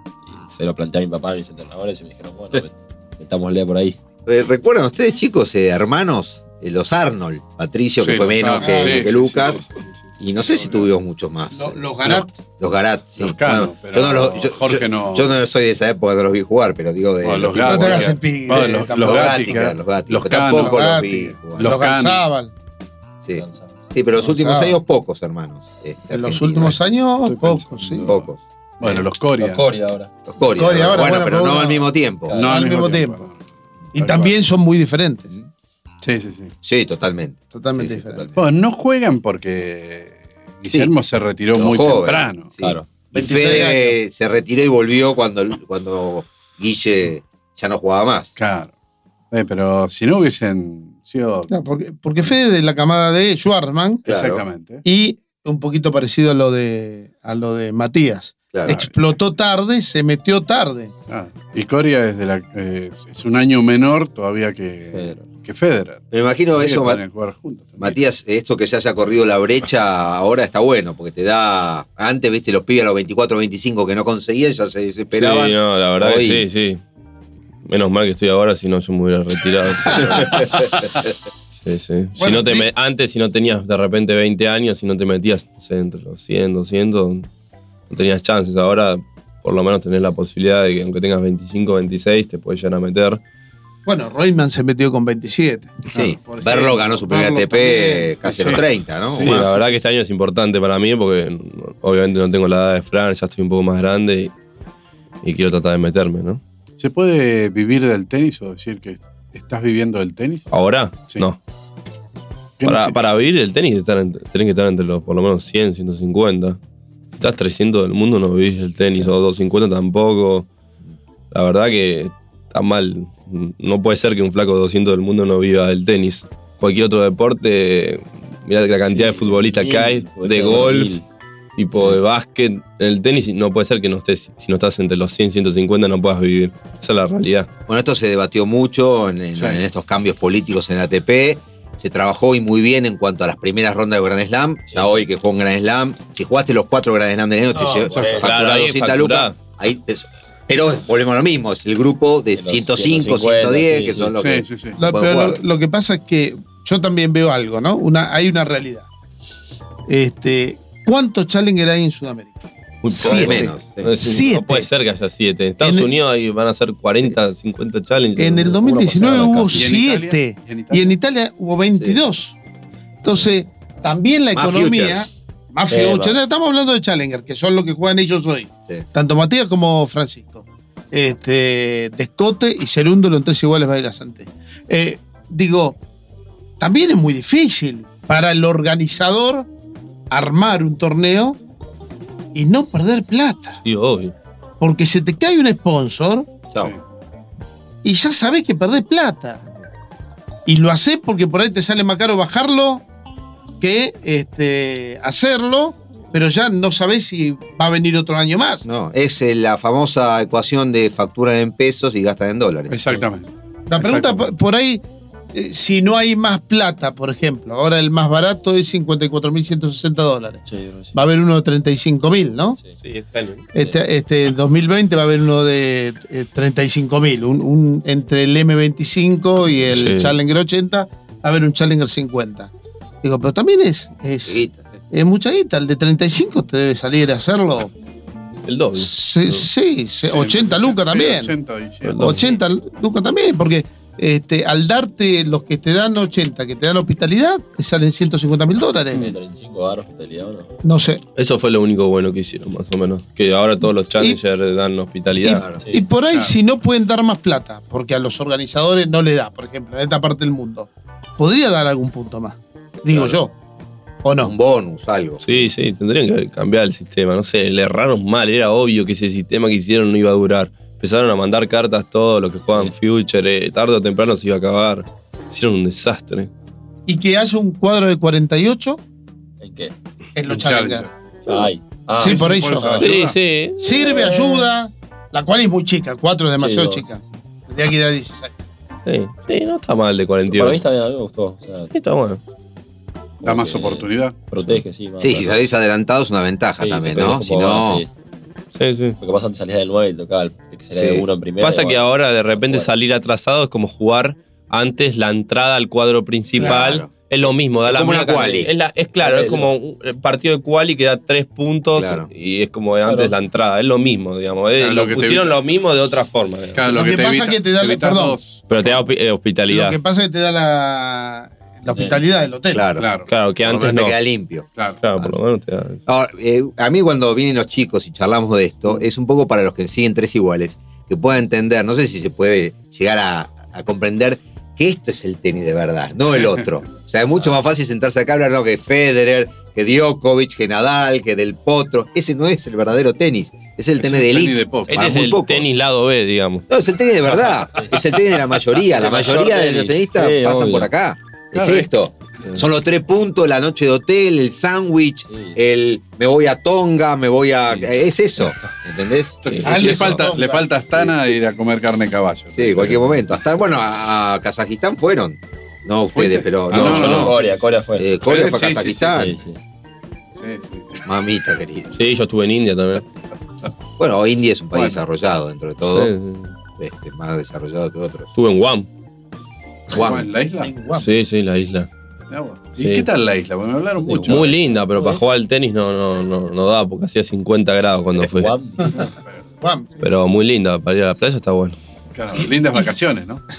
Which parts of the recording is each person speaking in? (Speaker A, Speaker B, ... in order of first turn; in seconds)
Speaker A: 0.3-4.0, 23.3-23.8, 29.4-30.1, 32.3-32.7, 42.6-42.9, 64.9-65.2, 128.8-131.1, 144.7-145.0, 147.5-148.4, 152.3-154.1, 168.4-169.7, 175.7-176.3, 220.5-220.9, 248.9-250.5, 255.6-255.8, 272.5-272.7, 279.4-279.7, 281.3-283.0, 286.4-286.9, 290.3-291.7, 293.2-295.4, 296.6-297.9, 299.0-302.7, 309.0-309.5, 312.8-313.1, 321.7-322.0, 348.7-350.7, 355.1-355.4, 366.5-369.4, 383.9-384.2, 384.8-385.0, 388.1-388.9
Speaker B: 4.3-9.6, 10.2-11.8, 12.4-18.2, 18.9-21.8, 23.2-26.8, 28.1-29.0, 30.3-32.3, 36.6-38.5, 41.5-48.3, 54.1-54.4, 58.5-58.8, 66.1-67.0, 67.8-76.5, 80.0-80.7, 95.9-99.5, 137.7-155.4, 162.9-163.9, 174.3-175.1, 208.7-212.8, 234.3-234.7, 255.3-255.6, 262.9-263.2, 264.2-265.5, 295.0-297.9, 300.7-301.1, 306.4-306.9, 307.6-308.5, 311.8-312.1, 322.5-322.9, 323.4-324.5, 325.9-345.5, 346.5-360.1, 362.3-367.2, 367.8-369.1, 370.9-371.8, 373.8-375.9, 376.6-378.1, 379.7-380.1
Speaker C: 8.0-10.8, 13.2-15.3, 17.2-22.2, 27.3-28.3, 28.8-29.7, 32.3-33.4, 34.0-34.4, 36.0-36.5, 38.4-42.5, 48.4-48.7, 49.3-51.5, 54.1-54.9, 58.7-58.9, 61.1-68.0, 98.3-99.5, 106.8-110.5, 112.6-113.0, 139.4-139.6, 154.2-154.8, 169.5-170.9, 212.7-214.3, 240.1-242.3, 280.3-280.9, 282.0-283.2, 293.2-294.2, 314.6-315.4, 316.5-318.4, 322.8-323.1, 343.8-344.9, 351.4-351.7, 359.2-362.9, 365.9-367.5, 368.0-369.1, 370.1-370.9, 374.5-374.8, 379.7-380.5, 382.1-384.4, 388.9-389.2, 391.9-393.2
Speaker D: 8.6-9.1, 11.5-12.4, 17.6-19.6, 20.4-22.5, 24.2-24.8, 26.1-28.1, 30.5-31.9, 32.4-33.2, 34.0-35.3, 37.5-38.3, 43.1-44.0, 51.5-54.1, 54.9-60.9, 82.2-82.7, 93.9-98.4, 154.8-158.9, 159.9-162.3, 162.9-164.7, 165.6-165.9, 168.2-172.4, 173.0-185.8, 186.6-189.5, 190.1-191.4, 192.3-193.6, 194.6-196.3, 197.8-199.4, 200.5-202.8, 203.6-208.6, 213.7-222.6, 223.5-232.5, 233.0-237.7, 238.8-241.3, 242.0-249.1, 250.6-251.0, 255.2-263.3, 264.0-264.3, 276.9-278.8, 280.1-280.9, 282.0-282.9, 283.6-288.3, 316.7-318.2, 319.5-322.7, 359.4-360.5, 380.4-380.9, 389.4-389.8
Speaker E: 75.1-76.8, 77.7-80.5, 81.6-87.3, 87.9-93.2, 99.2-104.3, 105.2-106.4, 110.5-111.4, 112.6-116.6, 117.2-120.5, 121.3-131.0, 131.6-137.5, 148.2-149.3, 162.8-168.6, 193.6-194.1, 222.8-223.5, 229.7-230.2, 238.5-239.5, 241.8-242.3, 251.2-255.5, 265.2-276.3, 282.8-284.4, 288.9-290.6, 291.7-292.2, 298.6-299.0, 301.4-316.6, 318.5-319.8, 323.1-324.0, 324.8-325.8, 344.7-346.4, 371.7-372.9, 375.7-376.3, 378.1-378.7, 380.8-381.7, 382.6-382.9, 384.0-388.3, 389.8-391.6